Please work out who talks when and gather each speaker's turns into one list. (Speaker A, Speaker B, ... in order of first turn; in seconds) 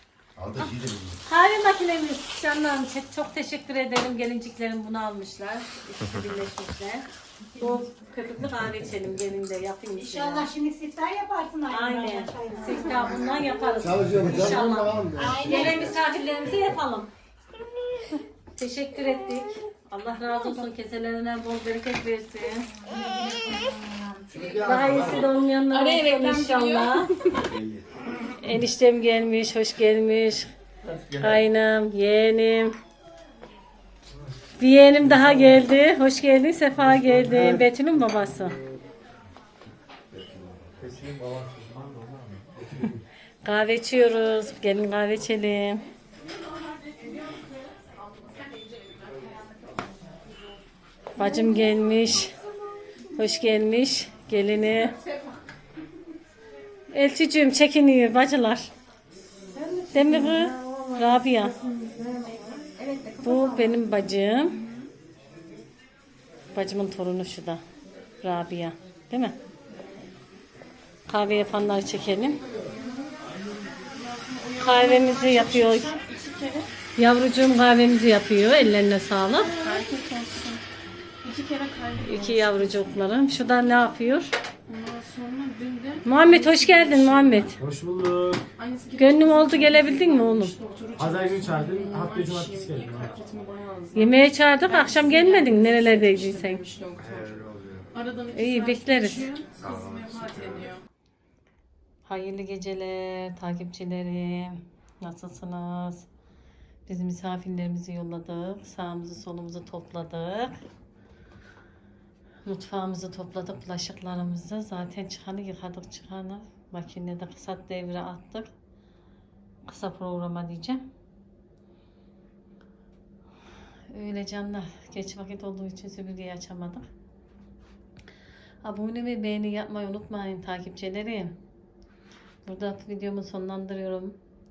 Speaker A: 0.3-1.2, 13.8-15.9, 24.3-25.3, 27.4-27.9, 30.9-31.4, 40.1-40.7, 97.2-97.8, 99.6-100.7
Speaker B: 1.2-10.5, 11.7-17.1, 18.5-22.7, 24.6-27.1, 28.4-30.5, 31.1-32.7, 34.6-38.5, 43.4-45.9, 51.1-52.3, 53.1-55.0, 56.9-58.7, 59.9-61.5, 63.2-64.6, 66.5-67.6, 68.2-69.3, 71.1-72.4, 74.6-76.0, 77.0-79.6, 82.0-84.3, 86.0-87.6, 89.0-90.5, 93.9-96.6, 98.3-99.3, 102.0-106.0, 106.9-110.5, 112.5-118.5, 119.7-120.8, 123.9-126.8, 128.6-131.4, 132.4-134.1
Speaker C: 10.0-13.2
Speaker D: 25.7-27.4, 47.0-47.2, 48.1-49.5, 59.5-63.6, 72.7-73.1, 73.8-76.7, 79.4-80.6, 81.2-82.9, 84.7-87.4, 88.6-100.8
Speaker E: 37.0-37.6, 40.8-42.9, 87.6-88.4, 91.0-93.1